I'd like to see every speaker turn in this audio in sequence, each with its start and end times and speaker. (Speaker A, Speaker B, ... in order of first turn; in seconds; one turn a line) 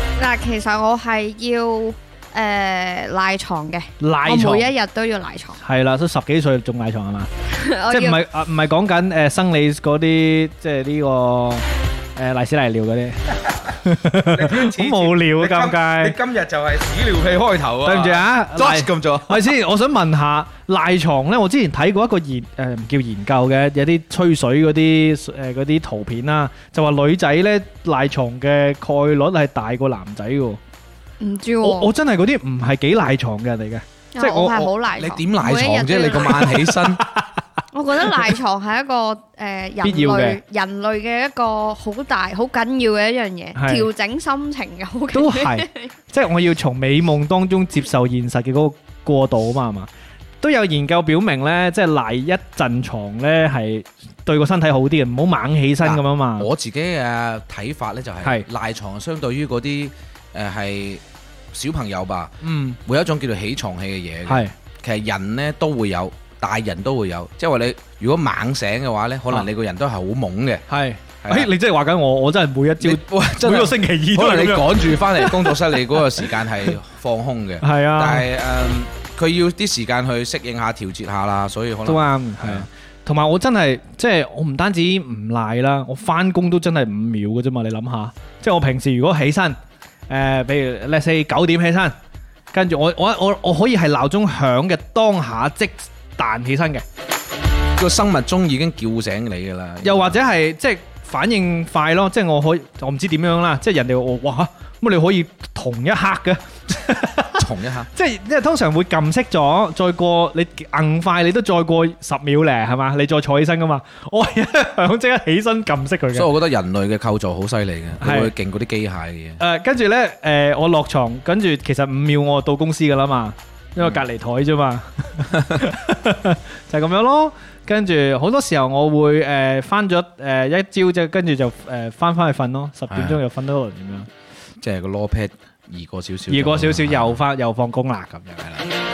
Speaker A: 0.2-5.6
Speaker B: 4.0-4.7
Speaker B: 5.6-7.3
Speaker A: 7.5-8.2
Speaker B: 7.9-11.7
Speaker B: 12.2-16.2
Speaker C: 14.1-19.6
Speaker B: 17.8-30.6
Speaker A: 31.2-31.9
Speaker B: 31.6-34.7
Speaker A: 34.1-36.6
Speaker C: 35.0-37.0
Speaker B: 36.7-37.3
Speaker A: 37.7-45.9
Speaker B: 39.8-40.4
Speaker B: 43.5-43.9
Speaker B: 45.1-49.9
Speaker B: 50.4-56.5
Speaker C: 55.8-70.7
Speaker B: 62.4-62.8
Speaker B: 64.3-64.5
Speaker B: 70.7-75.9
Speaker C: 71.2-71.5
Speaker C: 72.8-82.7
Speaker B: 77.6-78.3
Speaker B: 81.8-89.6
Speaker B: 90.1-92.0
Speaker B: 92.5-96.8
Speaker C: 97.8-100.2
Speaker B: 99.8-116.3
Speaker C: 107.4-107.9
Speaker C: 116.1-119.4
Speaker B: 118.0-118.3
Speaker B: 119.4-134.1
Speaker C: 132.9-133.2
Speaker C: 134.6-137.2
Speaker B: 136.3-138.7